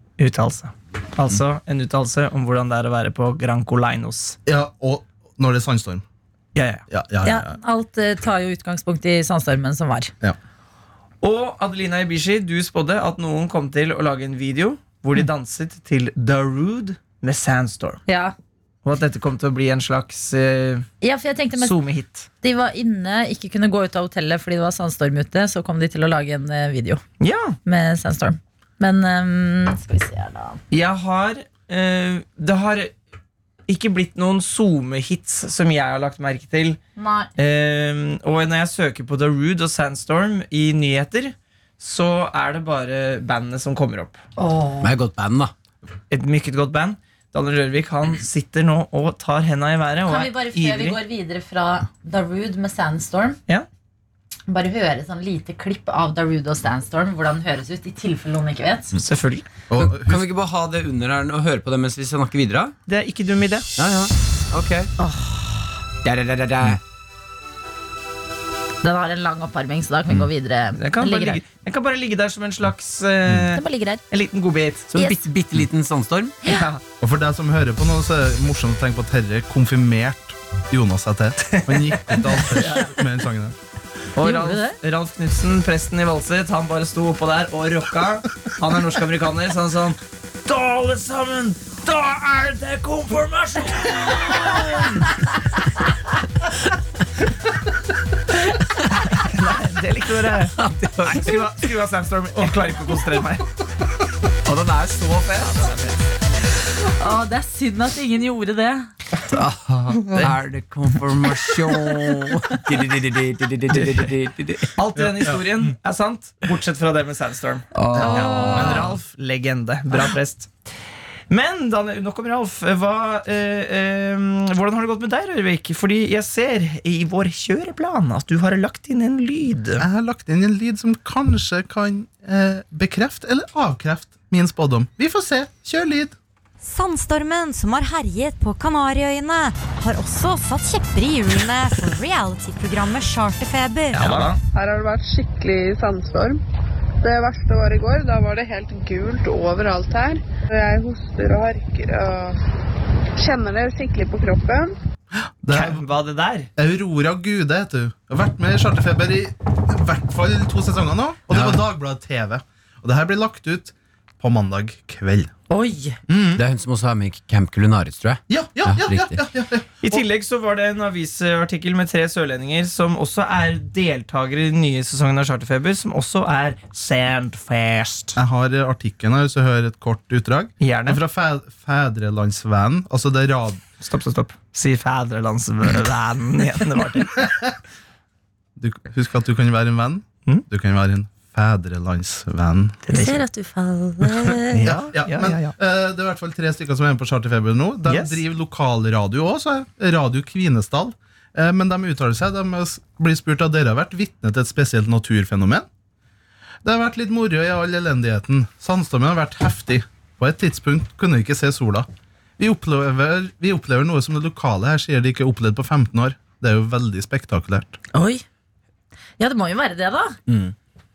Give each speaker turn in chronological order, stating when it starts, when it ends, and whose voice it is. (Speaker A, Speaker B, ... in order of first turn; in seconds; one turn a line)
Speaker A: 0.2-4.4
Speaker B: 4.5-6.0
Speaker A: 6.5-6.8
Speaker B: 6.9-7.5
Speaker C: 7.2-10.1
Speaker A: 11.2-18.0
Speaker C: 18.1-18.3
Speaker A: 18.8-20.9
Speaker C: 21.0-21.7
Speaker A: 21.6-22.3
Speaker C: 22.4-27.0
Speaker A: 27.2-27.6
Speaker C: 27.6-30.6
Speaker A: 30.7-32.9
Speaker A: 33.7-36.8
Speaker C: 37.0-37.3
Speaker A: 37.4-44.2
Speaker C: 44.4-44.9
Speaker D: 44.8-45.5
Speaker A: 46.1-51.0
Speaker C: 50.1-53.4
Speaker C: 54.5-58.9
Speaker A: 59.0-59.5
Speaker B: 59.7-60.2
Speaker D: 59.8-62.7
Speaker A: 62.9-63.7
Speaker D: 63.8-64.9
Speaker C: 65.0-65.7
Speaker D: 66.0-66.8
Speaker C: 68.8-71.4
Speaker A: 70.7-74.9
Speaker C: 73.5-74.0
Speaker D: 74.9-76.3
Speaker C: 75.0-75.2
Speaker A: 76.4-76.8
Speaker B: 77.0-83.5
Speaker A: 81.5-82.9
Speaker A: 84.1-95.1
Speaker C: 84.2-84.8
Speaker A: 99.1-103.4
Speaker D: 100.5-101.5
Speaker D: 104.4-105.7
Speaker A: 105.4-106.0
Speaker C: 107.0-108.9
Speaker D: 109.3-114.7
Speaker A: 114.8-120.5
Speaker B: 115.0-115.4
Speaker D: 117.7-118.8
Speaker C: 118.0-118.7
Speaker B: 118.5-118.8
Speaker A: 121.3-129.8
Speaker B: 129.8-136.1
Speaker E: 136.6-144.0
Speaker A: 143.9-144.4
Speaker F: 144.5-146.4
Speaker F: 147.0-152.4
Speaker F: 153.2-154.7
Speaker B: 155.2-155.8
Speaker A: 155.5-156.5
Speaker B: 156.6-165.3
Speaker D: 161.3-161.6
Speaker C: 165.5-166.0
Speaker B: 166.1-166.4
Speaker D: 166.3-169.2
Speaker B: 168.3-170.0
Speaker A: 169.8-178.2
Speaker B: 178.2-183.6
Speaker A: 180.6-181.0
Speaker A: 183.8-187.3
Speaker B: 188.6-192.8
Speaker A: 192.9-193.2
Speaker C: 192.9-194.6
Speaker A: 194.3-195.5
Speaker B: 194.6-205.7
Speaker A: 197.8-198.2
Speaker B: 206.6-211.9
Speaker B: 212.4-217.8
Speaker C: 217.9-218.2
Speaker C: 219.2-220.2